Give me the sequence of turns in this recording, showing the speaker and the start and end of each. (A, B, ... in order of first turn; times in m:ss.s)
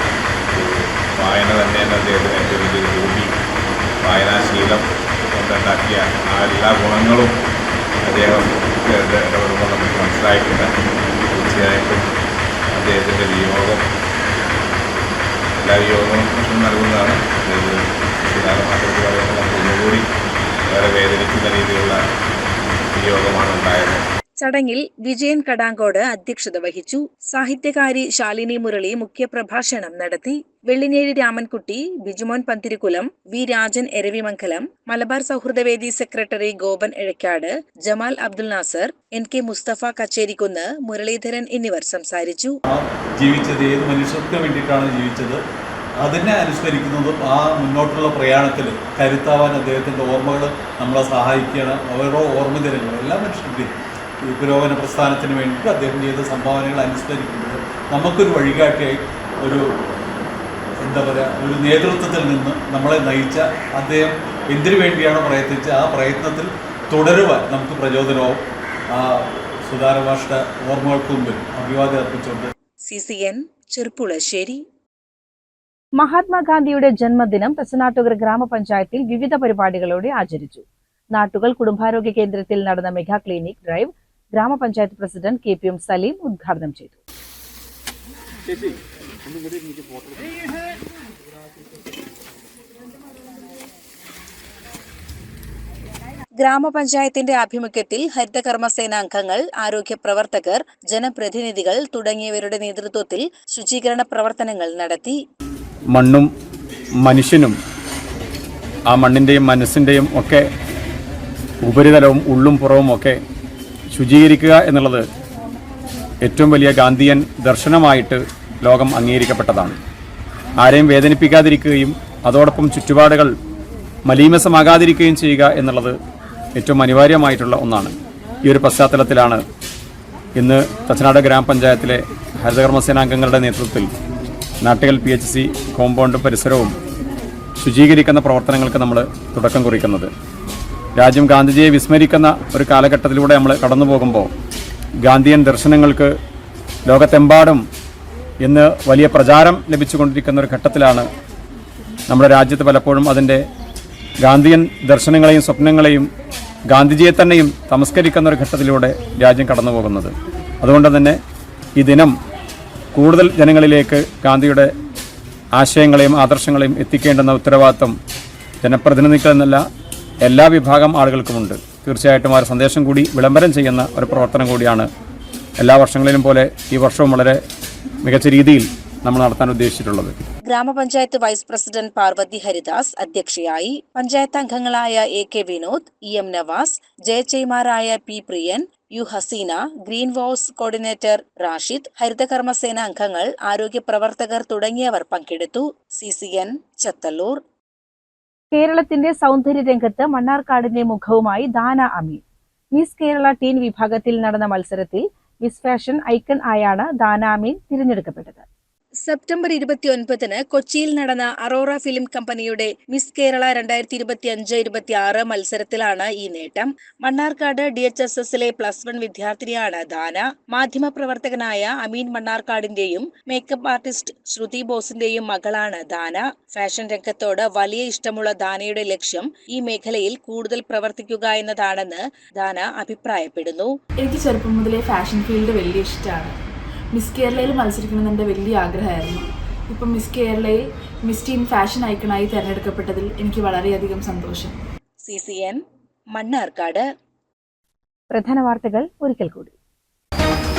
0:00.5-0:03.3 A
0:04.0-0:07.3 A
0:08.0-0:10.7 A
0:11.3-0:12.1 A
0:12.7-0:13.8 A
0:15.6-0:20.1 A
0:20.7-0:22.0 A
0:22.9-0:24.0 A
0:24.4-0:42.6 B
0:42.7-0:45.4 C
0:46.0-0:53.7 C
0:54.2-0:59.6 C
1:00.8-1:12.5 C
1:12.9-1:14.6 B
1:16.0-1:20.6 D
1:21.2-1:27.0 D
1:36.4-1:45.2 B
1:45.9-1:46.3 E
1:47.0-1:47.6 E
1:48.9-1:50.5 E
1:51.6-1:53.2 E
1:54.0-1:55.1 E
1:56.2-1:59.8 E
2:00.6-2:03.3 E
2:04.1-2:05.9 E
2:06.6-2:07.9 E
2:08.4-2:09.4 E
2:10.4-2:13.9 E
2:14.6-2:16.8 E
2:17.6-2:20.1 E
2:21.0-2:24.3 E
2:25.0-2:26.1 E
2:26.9-2:27.6 E
2:28.4-2:31.1 E
2:32.1-2:33.5 E
2:34.2-2:36.1 E
2:36.7-2:41.2 E
2:41.8-2:42.2 E
2:43.0-2:44.7 E
2:45.6-2:48.0 E
2:48.6-2:49.6 E
2:50.3-2:54.9 E
2:55.6-2:57.4 E
2:58.0-3:00.1 E
3:00.5-3:17.4 B
3:18.5-3:22.2 D
3:22.8-3:28.5 D
3:29.1-3:53.7 B
3:54.0-3:56.4 F
3:56.9-4:04.6 F
4:05.1-4:05.6 B
4:06.2-4:06.8 B
4:08.1-4:09.5 D